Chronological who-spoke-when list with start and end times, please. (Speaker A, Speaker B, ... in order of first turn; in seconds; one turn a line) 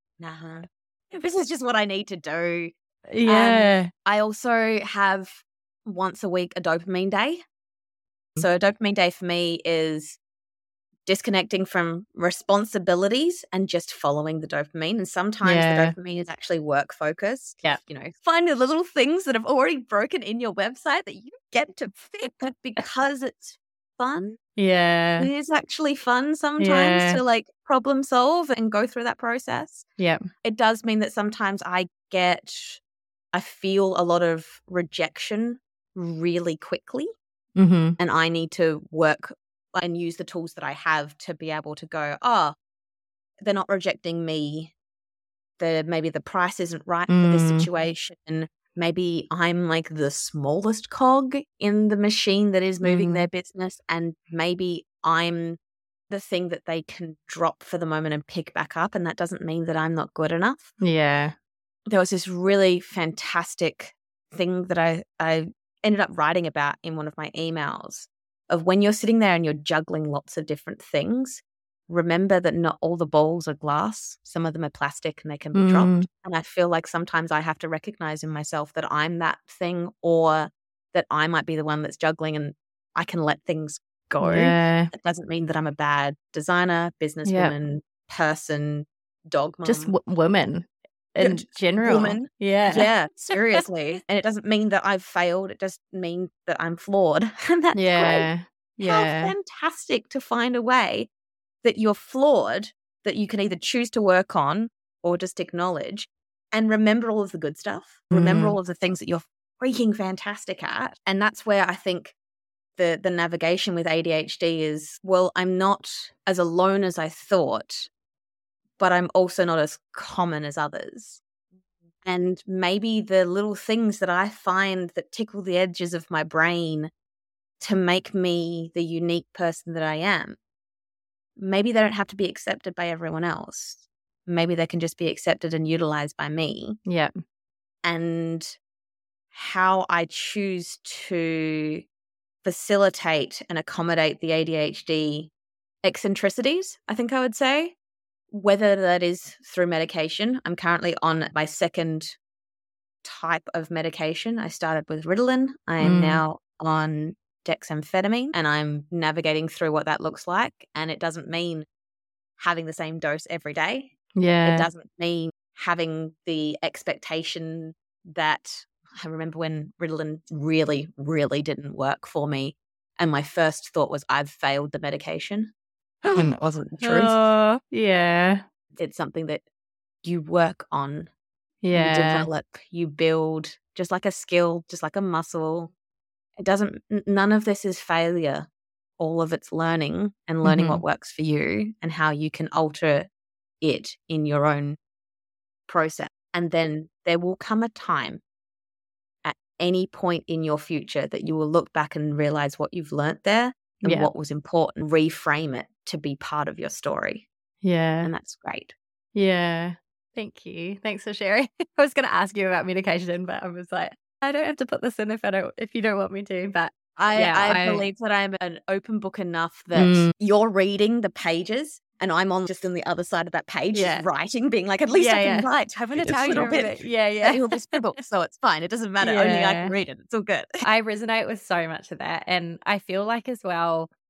Speaker A: 0.2-2.7
Speaker B: 3.1-3.9
Speaker A: 3.2-7.4
Speaker A: 8.4-10.2
Speaker A: 11.1-24.4
Speaker B: 15.4-15.9
Speaker B: 24.6-25.3
Speaker A: 25.2-29.9
Speaker B: 26.6-27.2
Speaker B: 30.0-30.2
Speaker A: 30.4-32.8
Speaker A: 33.3-37.1
Speaker B: 37.5-38.0
Speaker A: 38.0-42.5
Speaker A: 43.4-44.7
Speaker A: 45.6-55.6
Speaker B: 47.1-47.7
Speaker B: 52.8-53.3
Speaker A: 56.1-60.7
Speaker B: 60.8-61.3
Speaker A: 61.9-89.9
Speaker B: 75.5-76.1
Speaker B: 84.2-84.9
Speaker B: 87.2-87.5
Speaker B: 89.6-92.9
Speaker A: 91.2-98.3
Speaker B: 97.7-99.3
Speaker A: 98.8-101.1
Speaker A: 101.6-112.1
Speaker B: 108.1-108.5
Speaker A: 112.8-117.9
Speaker A: 118.8-121.2
Speaker A: 122.0-126.9
Speaker A: 127.6-130.4
Speaker A: 131.4-136.8
Speaker B: 136.8-137.1
Speaker A: 137.8-138.6
Speaker A: 139.3-141.8
Speaker A: 142.4-145.3
Speaker A: 145.8-147.7
Speaker A: 148.3-152.2
Speaker A: 153.0-161.7
Speaker B: 155.8-156.2
Speaker A: 162.4-175.5
Speaker B: 164.2-164.7
Speaker B: 176.1-178.4
Speaker A: 176.2-177.1
Speaker A: 178.8-179.4
Speaker A: 180.0-181.1
Speaker B: 181.6-182.3
Speaker A: 181.7-185.7
Speaker A: 186.4-188.5
Speaker A: 189.0-193.1
Speaker B: 190.4-190.8
Speaker A: 193.6-194.8
Speaker A: 195.7-198.2
Speaker A: 199.2-207.2
Speaker B: 203.8-204.1
Speaker B: 207.6-208.1
Speaker A: 208.0-208.7
Speaker B: 209.1-217.8
Speaker A: 217.0-230.5
Speaker B: 219.7-220.1
Speaker B: 223.7-224.1
Speaker B: 224.9-227.7
Speaker B: 229.0-229.8
Speaker B: 230.6-233.9